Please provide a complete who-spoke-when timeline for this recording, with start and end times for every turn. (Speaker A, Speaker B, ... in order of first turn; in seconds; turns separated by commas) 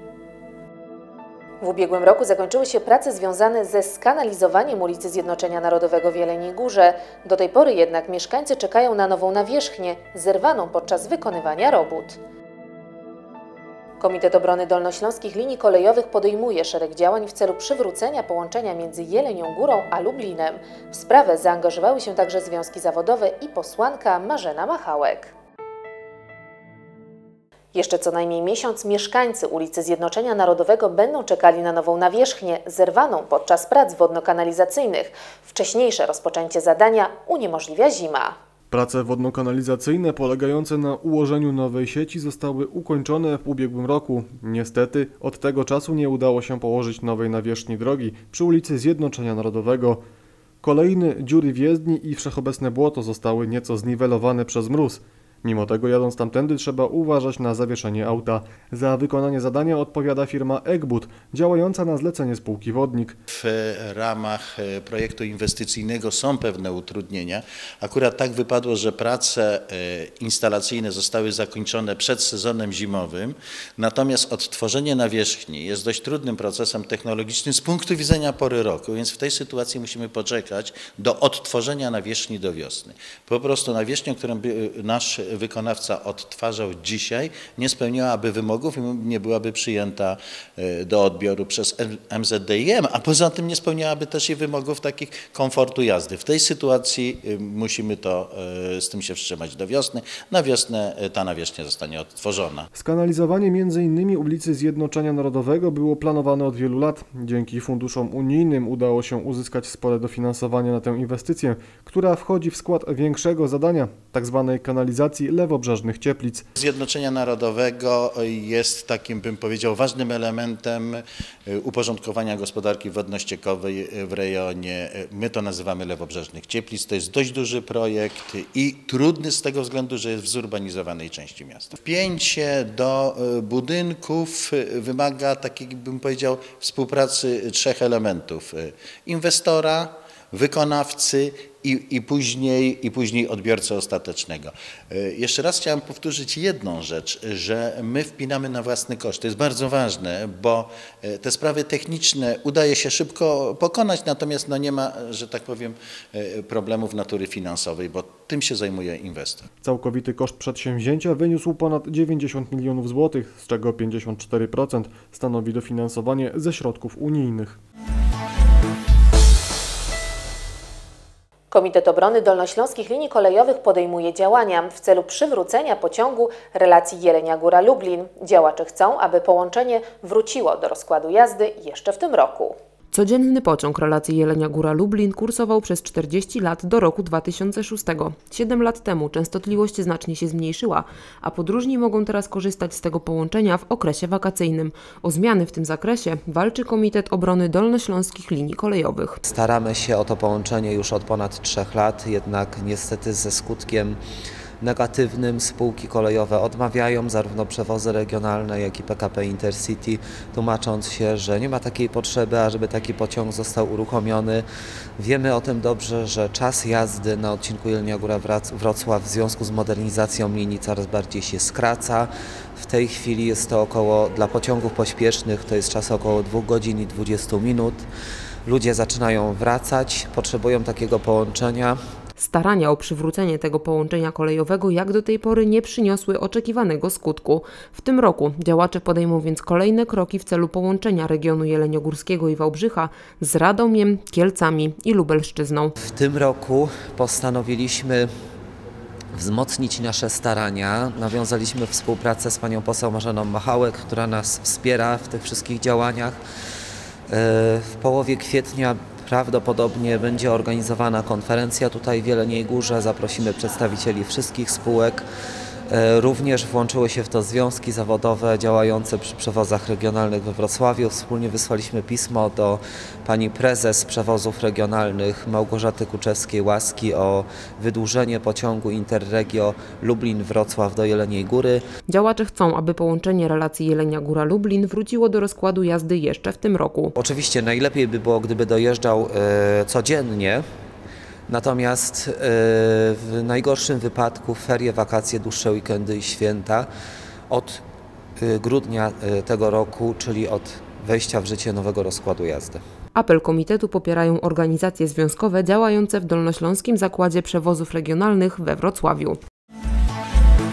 Speaker A: 1.6-12.2, Speaker A: 14.0-25.3, Speaker A: 27.7-38.3, Speaker B: 38.7-50.0, Speaker B: 50.6-63.2, Speaker C: 63.3-102.7, Speaker B: 102.7-116.5, Speaker C: 116.6-159.4, Speaker B: 159.6-167.6, Speaker A: 171.5-182.5, Speaker D: 182.9-199.2, Speaker E: 199.2-204.0, Speaker E: 204.6-214.4, Speaker E: 215.0-227.9, Speaker E: 228.4-231.8, Speaker D: 232.2-245.7, Speaker E: 245.8-248.1, Speaker E: 249.1-256.2, Speaker E: 257.1-265.0, Speaker E: 265.7-281.6, Speaker D: 281.9-286.9, Speaker E: 287.0-290.4, Speaker E: 291.3-296.7, Speaker E: 297.3-297.6, Speaker E: 298.2-302.6, Speaker D: 302.9-309.2